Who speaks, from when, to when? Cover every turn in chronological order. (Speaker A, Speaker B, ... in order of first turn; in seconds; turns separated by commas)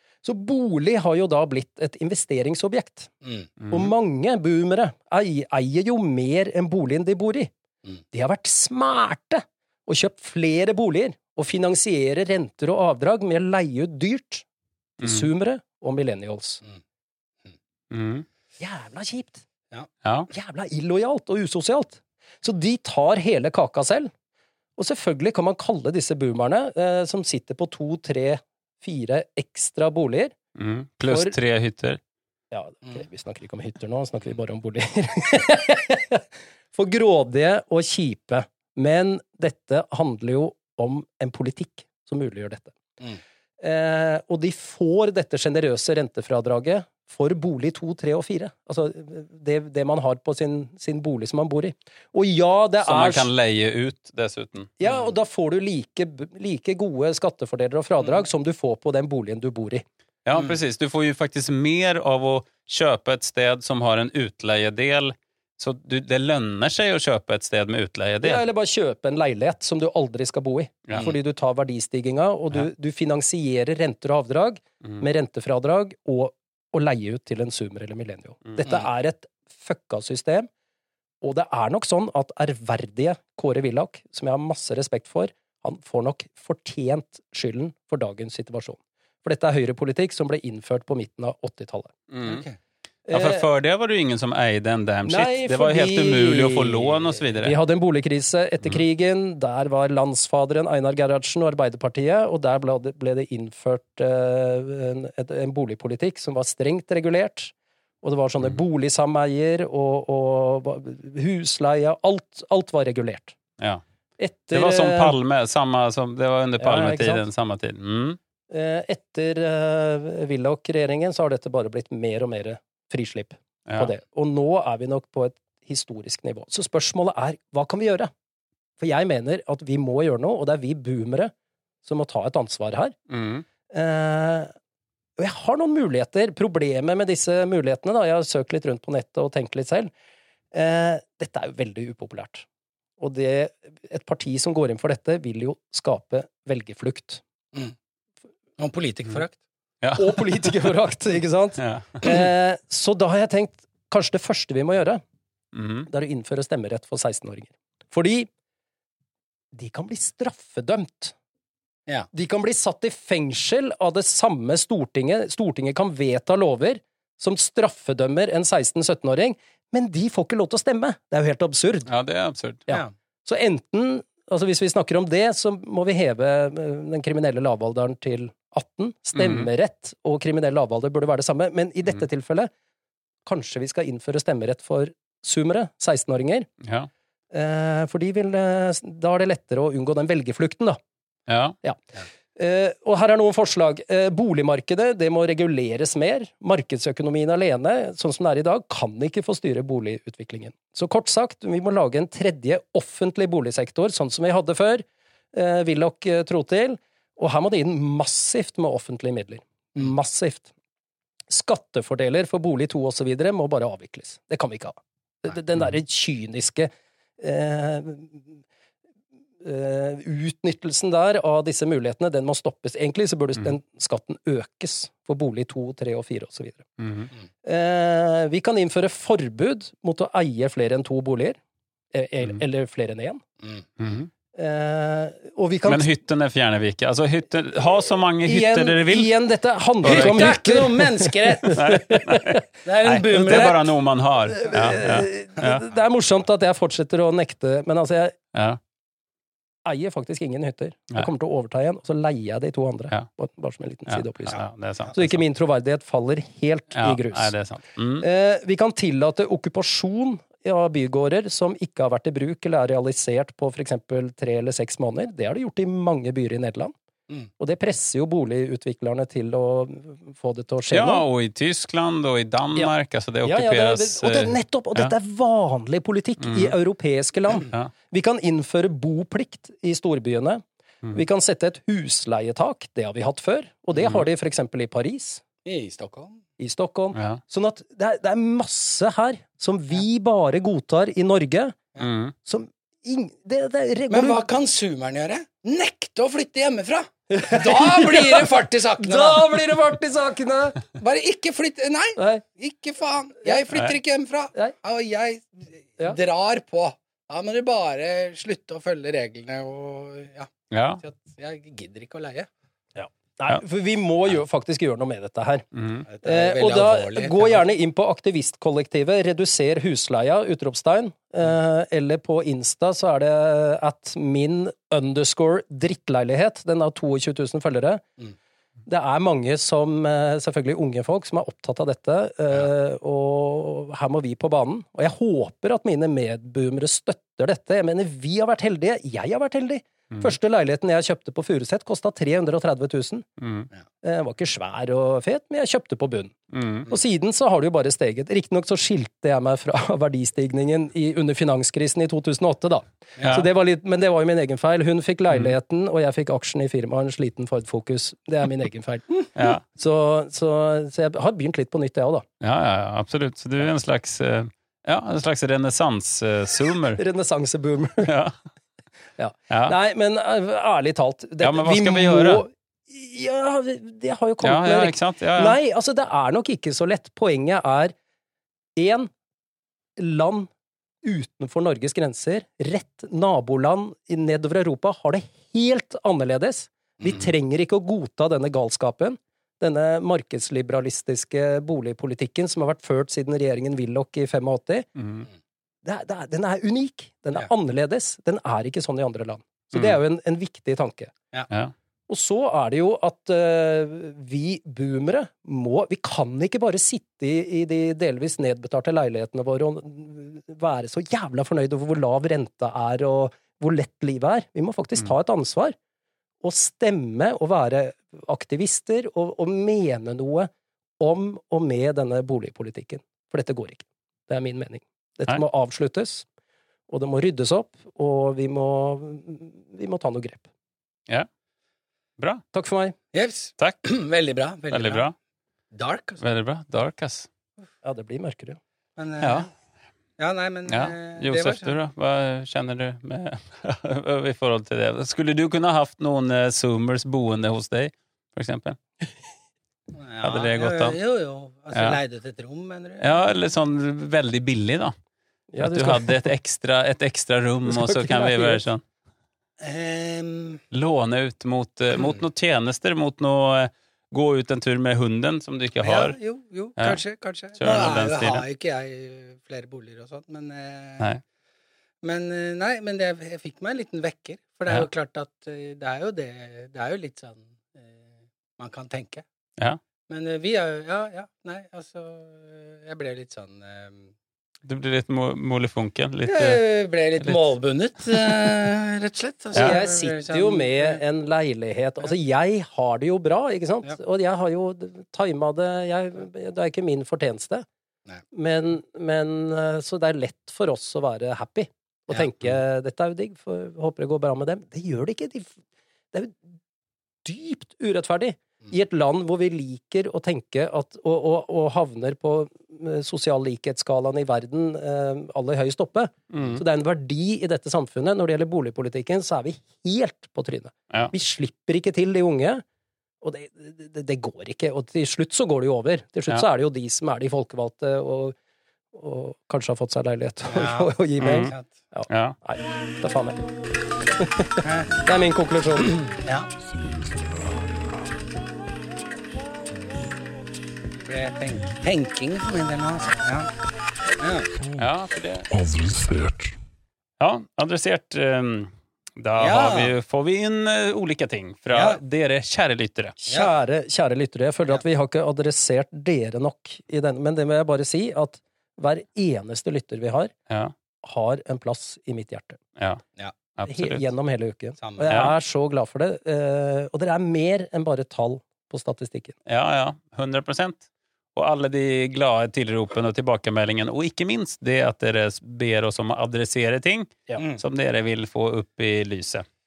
Speaker A: 0.2-3.1, Speaker B: 3.6-3.9, Speaker A: 3.7-7.5, Speaker A: 8.1-14.4, Speaker A: 15.0-16.6, Speaker B: 15.0-15.3, Speaker B: 17.9-18.3, Speaker A: 18.6-19.4, Speaker B: 20.0-20.3, Speaker A: 20.3-24.1, Speaker A: 24.8-30.4, Speaker B: 30.6-32.0, Speaker A: 31.1-31.4, Speaker A: 32.5-42.8, Speaker A: 43.6-53.3, Speaker B: 52.8-54.7, Speaker A: 54.8-59.8, Speaker B: 60.3-68.4, Speaker A: 68.2-80.5, Speaker B: 70.9-71.1, Speaker A: 81.2-92.0, Speaker B: 92.1-92.5, Speaker C: 92.3-92.5, Speaker A: 93.1-93.5, Speaker B: 93.1-97.5, Speaker A: 95.1-113.4, Speaker A: 114.2-115.2, Speaker B: 114.5-118.2, Speaker A: 116.6-117.2, Speaker A: 118.5-128.1, Speaker A: 128.8-131.3, Speaker A: 131.8-132.9, Speaker B: 133.1-133.5, Speaker A: 133.7-134.5, Speaker A: 135.2-139.9, Speaker A: 140.5-142.5, Speaker A: 143.0-147.2, Speaker C: 148.6-149.4, Speaker B: 149.8-150.5, Speaker A: 149.9-155.0, Speaker B: 151.6-152.1, Speaker B: 155.5-155.9, Speaker A: 155.9-158.3, Speaker A: 159.5-161.2, Speaker A: 162.1-171.9, Speaker B: 171.9-172.7, Speaker A: 172.7-182.5, Speaker B: 179.1-179.5, Speaker A: 183.2-186.5, Speaker B: 186.6-186.9, Speaker A: 187.3-190.8, Speaker B: 191.3-191.6, Speaker A: 192.3-210.5, Speaker A: 211.3-218.4, Speaker A: 219.4-226.7, Speaker B: 226.8-227.1, Speaker A: 227.4-231.4, Speaker A: 231.9-233.2, Speaker B: 233.8-234.1, Speaker A: 234.3-235.9, Speaker B: 235.7-239.1, Speaker A: 238.2-242.4, Speaker B: 239.8-240.4, Speaker C: 239.8-241.6, Speaker B: 241.6-245.7, Speaker C: 242.7-243.7, Speaker A: 243.3-243.5, Speaker A: 244.3-248.2, Speaker B: 248.3-248.6, Speaker A: 249.7-257.3, Speaker B: 253.9-255.2, Speaker B: 256.8-258.0, Speaker A: 258.0-266.7, Speaker A: 267.4-271.1, Speaker B: 270.7-274.9, Speaker A: 273.2-285.2, Speaker B: 276.2-276.5, Speaker B: 283.8-284.0, Speaker C: 285.4-286.2, Speaker A: 286.4-291.6, Speaker B: 286.9-287.2, Speaker B: 291.8-292.1, Speaker A: 292.2-294.2, Speaker C: 293.9-299.3, Speaker A: 297.1-300.6, Speaker C: 300.8-312.3, Speaker A: 302.0-302.2, Speaker B: 310.5-310.8, Speaker A: 312.8-315.5, Speaker B: 315.5-315.9, Speaker C: 315.9-317.4, Speaker A: 316.0-327.9, Speaker A: 328.7-343.1, Speaker B: 343.2-343.5, Speaker A: 343.8-346.2, Speaker B: 346.3-346.7, Speaker A: 346.7-362.1, Speaker B: 353.0-353.3, Speaker B: 359.1-359.4, Speaker B: 362.2-366.8, Speaker A: 366.8-367.9, Speaker B: 367.8-368.1, Speaker A: 369.0-377.7, Speaker B: 371.2-372.2, Speaker B: 374.2-375.4, Speaker A: 378.6-378.9, Speaker A: 379.8-380.3, Speaker A: 380.8-394.7, Speaker B: 394.8-395.1, Speaker A: 395.6-400.9, Speaker A: 401.9-415.6, Speaker A: 416.2-426.1, Speaker A: 426.7-430.3, Speaker A: 432.3-432.8, Speaker C: 432.9-434.9, Speaker B: 434.5-434.9, Speaker C: 435.5-436.0, Speaker B: 436.0-437.1, Speaker A: 437.6-438.4, Speaker C: 438.8-439.3, Speaker B: 439.0-439.3, Speaker C: 440.0-441.6, Speaker B: 440.5-448.6, Speaker C: 449.8-453.0, Speaker B: 450.0-450.8, Speaker B: 451.5-451.8, Speaker B: 452.8-454.7, Speaker A: 455.3-456.1, Speaker B: 455.4-458.6, Speaker A: 457.5-458.4, Speaker C: 459.4-460.4, Speaker B: 460.5-465.9, Speaker C: 465.6-470.9, Speaker B: 467.4-468.2, Speaker C: 471.8-477.8, Speaker C: 478.4-479.0, Speaker C: 479.9-483.9, Speaker B: 484.4-486.4, Speaker C: 486.1-490.8, Speaker A: 489.3-497.5, Speaker A: 498.1-505.4, Speaker A: 505.9-506.3, Speaker A: 507.1-522.4, Speaker B: 516.1-516.4, Speaker A: 523.0-528.2, Speaker A: 528.7-533.2, Speaker C: 530.3-531.5, Speaker B: 531.0-531.3, Speaker B: 531.9-532.2, Speaker A: 534.0-535.8, Speaker C: 534.4-534.7, Speaker C: 535.8-536.3, Speaker C: 540.9-543.3, Speaker C: 544.0-544.4, Speaker B: 544.6-545.5, Speaker B: 547.0-553.0, Speaker C: 549.2-549.7, Speaker C: 551.5-551.8, Speaker A: 553.0-560.1, Speaker A: 560.8-562.4, Speaker B: 562.6-562.8, Speaker B: 563.4-563.8, Speaker A: 563.5-569.2, Speaker C: 564.6-564.9, Speaker B: 564.9-565.1, Speaker B: 569.3-579.2